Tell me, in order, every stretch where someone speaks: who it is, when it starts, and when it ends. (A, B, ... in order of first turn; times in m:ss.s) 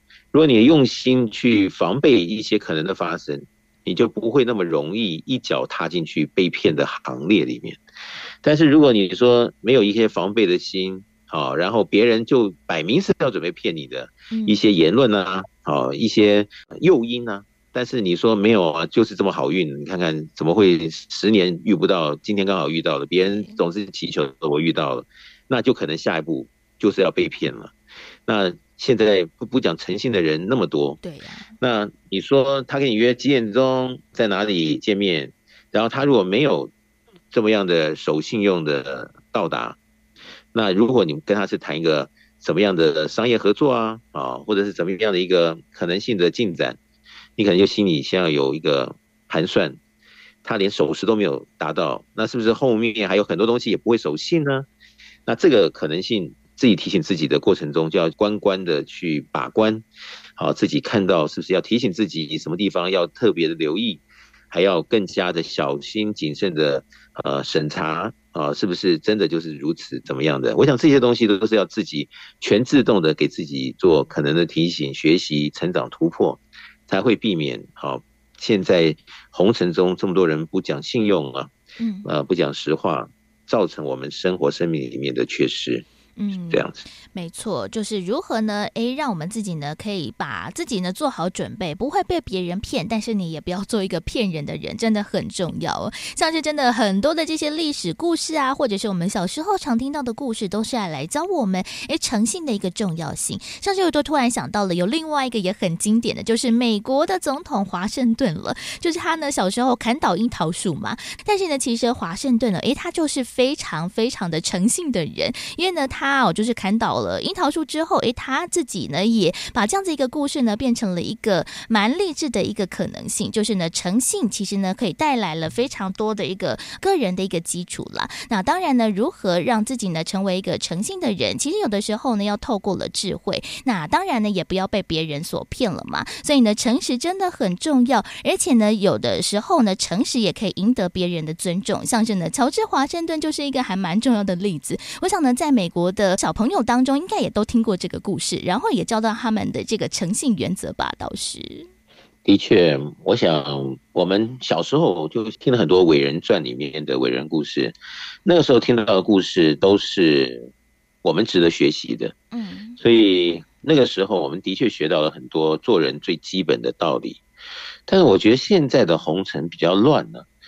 0:00.3-0:07.8 A
0:08.4-0:27.7 A
0:14.3-0:14.6 B
0:23.3-0:23.6 B
0:28.2-0:31.0 A
0:31.0-0:31.4 B
0:31.6-0:36.7 A
0:37.3-0:39.8 A
0:40.5-0:46.8 A
0:47.4-0:49.8 A
0:50.4-0:54.7 A
0:55.2-0:59.8 A
1:00.4-1:21.5 A
1:21.8-1:22.1 B
1:22.0-1:25.8 A
1:26.2-2:31.7 B
1:26.5-1:26.8 A
2:32.2-2:40.5 A
2:41.0-2:42.1 A
2:42.4-2:42.7 B
2:42.8-2:47.2 A
2:47.9-2:50.2 A